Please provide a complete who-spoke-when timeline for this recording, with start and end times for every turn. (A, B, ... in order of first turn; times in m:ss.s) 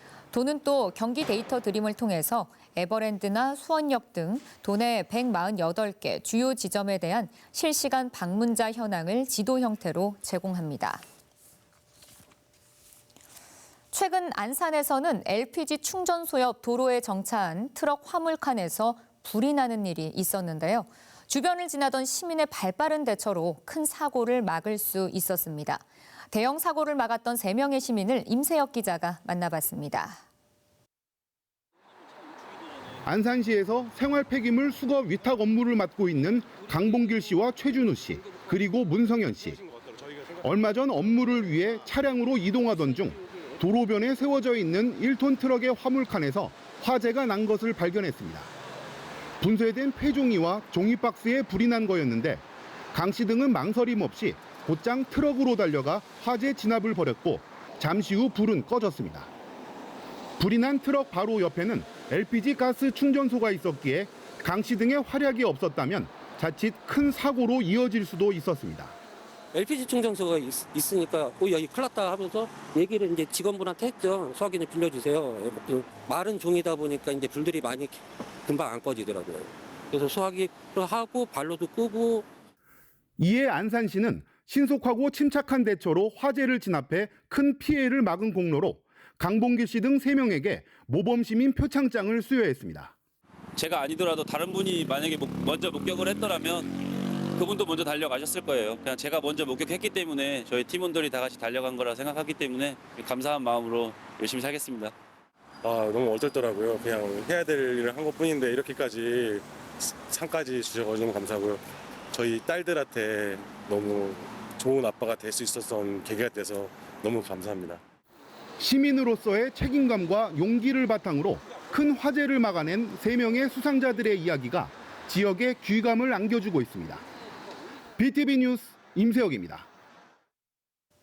0:00.3-0:11.0 A
0:13.9-0:30.2 A
0:33.0-0:39.6 B
0:40.4-0:48.5 B
0:49.4-0:59.3 B
1:00.4-1:08.9 B
1:09.5-1:22.2 C
1:23.2-1:32.9 B
1:33.6-1:44.9 D
1:45.6-1:57.8 E
1:58.6-2:07.0 B
2:08.0-2:09.6 B